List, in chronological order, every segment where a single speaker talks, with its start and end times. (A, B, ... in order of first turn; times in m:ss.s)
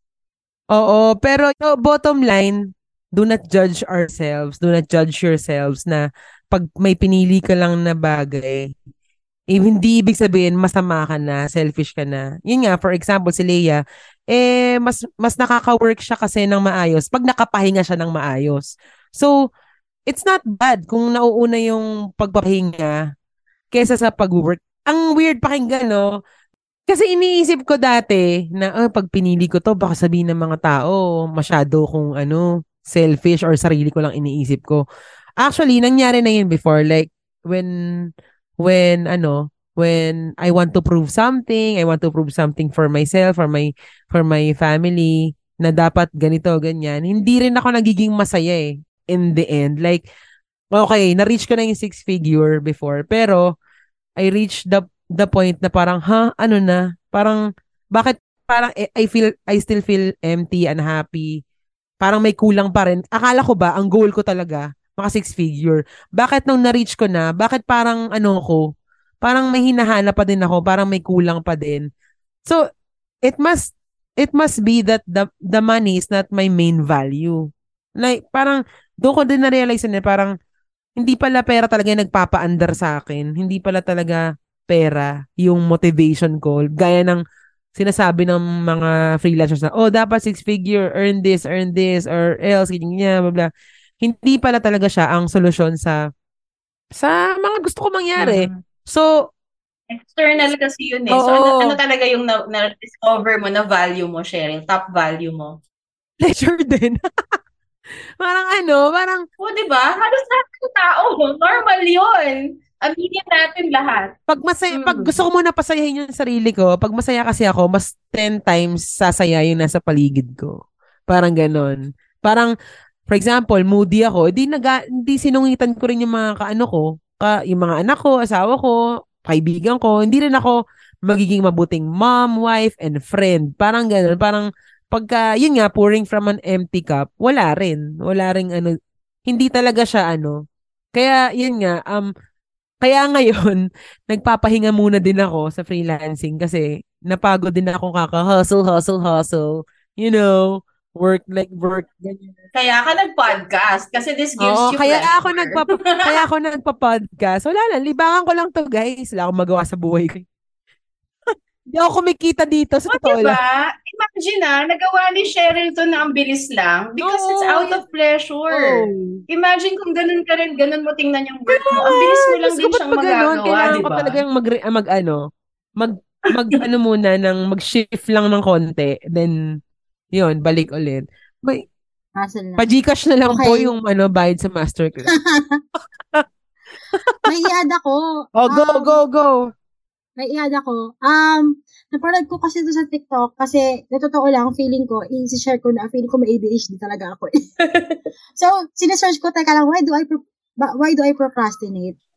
0:00.7-0:08.7 A
0:09.5-0:13.8 A
0:14.3-0:19.3 A
0:20.1-0:22.9 A
0:23.7-0:26.0 A
0:26.9-0:34.8 A
0:35.4-0:37.7 A
0:38.6-0:50.0 A
0:50.7-0:53.4 A
0:54.2-1:01.4 A
1:02.0-1:08.6 A
1:09.2-1:11.9 A
1:13.2-1:20.3 A
1:21.0-1:27.2 A
1:27.8-1:33.5 A
1:34.0-1:36.0 A
1:37.0-1:39.1 A
1:38.2-1:38.6 B
1:39.9-1:45.6 B
1:41.1-1:41.8 A
1:46.2-1:47.0 A
1:48.2-1:49.2 A
1:49.4-1:54.2 B
1:54.3-2:02.5 A
1:54.7-1:55.2 B
2:03.1-2:10.5 A
2:11.1-2:18.8 A
2:19.3-2:20.4 A
2:20.9-2:22.1 A
2:22.8-2:32.3 A
2:32.5-2:36.2 B
2:34.4-2:40.2 A
2:41.7-2:43.4 A
2:42.9-2:54.2 B
2:47.0-2:47.8 A
2:48.5-2:49.2 A
2:51.5-2:55.2 A
2:55.8-2:59.4 A
3:00.1-3:01.6 A
3:02.2-3:02.7 C
3:02.6-3:05.1 A
3:03.3-3:03.7 C
3:05.1-3:05.6 C
3:07.2-3:09.0 C
3:08.4-3:09.5 A
3:10.2-3:17.3 C
3:18.4-3:22.0 C